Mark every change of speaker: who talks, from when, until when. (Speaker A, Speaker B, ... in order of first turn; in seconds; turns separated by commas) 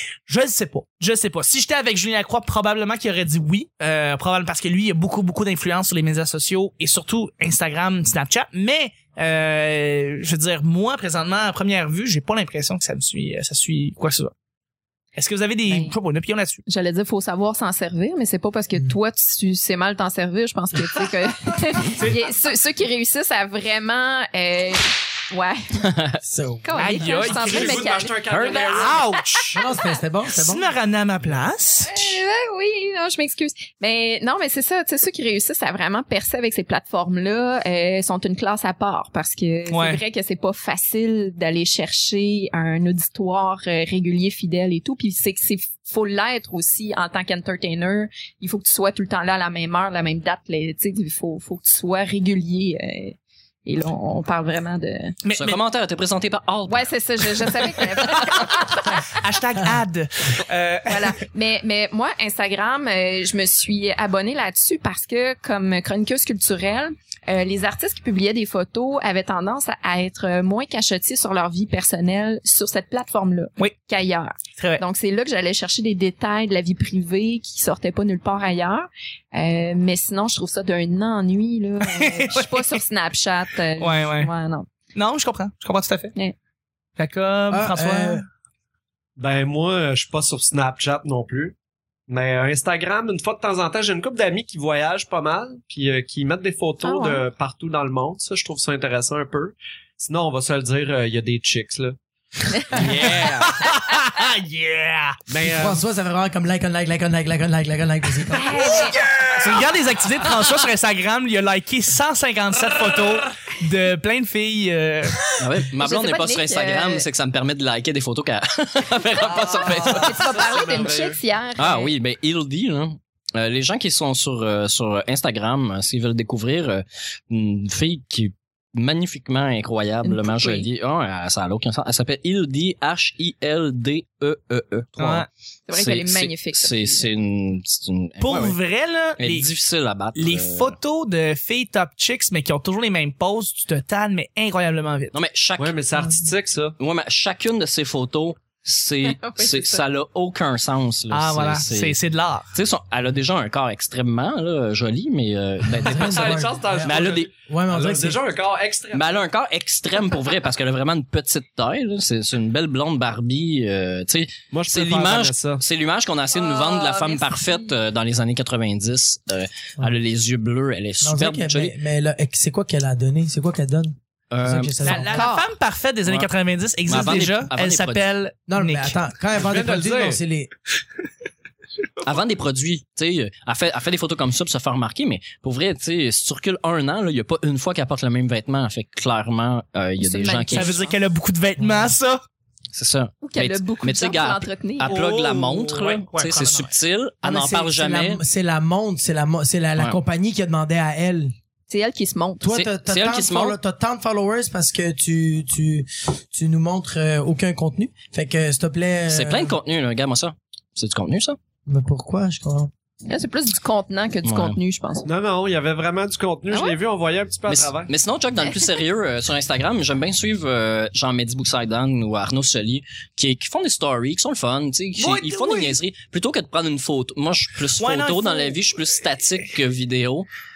Speaker A: 0.3-14.3, Speaker A: 15.2-16.6, Speaker B: 15.7-15.9, Speaker B: 16.7-25.9, Speaker C: 26.2-26.8, Speaker B: 26.6-29.9, Speaker A: 26.8-29.6, Speaker D: 27.1-29.4, Speaker E: 28.3-28.7, Speaker C: 29.5-30.7, Speaker A: 30.3-32.2, Speaker B: 31.8-55.2, Speaker A: 39.7-40.0, Speaker A: 55.2-55.6, Speaker E: 55.3-56.9, Speaker B: 56.7-59.2, Speaker A: 58.2-61.1, Speaker B: 60.9-84.7, Speaker A: 74.6-74.8, Speaker A: 81.9-82.8, Speaker A: 83.8-84.3, Speaker A: 84.9-86.1, Speaker A: 87.0-88.2, Speaker C: 87.5-88.2, Speaker D: 89.2-91.5, Speaker D: 92.1-102.0, Speaker B: 96.8-97.2, Speaker D: 102.5-103.5, Speaker E: 102.7-103.5, Speaker A: 102.8-105.2, Speaker D: 105.3-105.8, Speaker C: 105.5-108.9, Speaker B: 108.3-109.0, Speaker A: 108.6-115.3, Speaker E: 115.4-120.4, Speaker B: 115.8-117.0, Speaker B: 119.3-121.9, Speaker D: 119.5-121.2, Speaker E: 121.6-138.6, Speaker B: 130.0-130.7, Speaker A: 135.0-135.3, Speaker B: 135.7-137.1, Speaker A: 138.2-139.5, Speaker E: 139.2-140.8, Speaker A: 140.1-145.1, Speaker E: 145.1-145.8, Speaker D: 145.6-146.8, Speaker E: 146.8-151.9, Speaker B: 149.0-149.8, Speaker A: 151.1-152.5, Speaker E: 152.5-157.3, Speaker C: 155.7-158.2, Speaker D: 155.9-159.1, Speaker E: 158.9-171.7, Speaker D: 164.5-165.6, Speaker B: 166.3-167.7, Speaker C: 171.0-175.2, Speaker E: 174.3-175.0, Speaker A: 174.8-179.0, Speaker B: 174.9-175.4, Speaker E: 176.9-178.0, Speaker C: 178.5-180.5, Speaker D: 179.3-180.2, Speaker E: 182.0-190.8, Speaker B: 190.0-190.9, Speaker A: 190.5-192.2, Speaker C: 191.6-191.9, Speaker E: 192.7-198.2, Speaker B: 193.2-195.0, Speaker A: 194.8-196.7, Speaker C: 197.2-201.3, Speaker B: 201.7-202.5, Speaker C: 202.4-209.6, Speaker E: 202.5-203.6, Speaker E: 209.1-211.4, Speaker C: 211.7-212.7, Speaker B: 213.1-215.1, Speaker E: 214.2-214.6, Speaker D: 215.1-217.9, Speaker B: 216.5-216.8, Speaker E: 217.5-230.3, Speaker A: 225.0-225.8, Speaker A: 227.8-228.6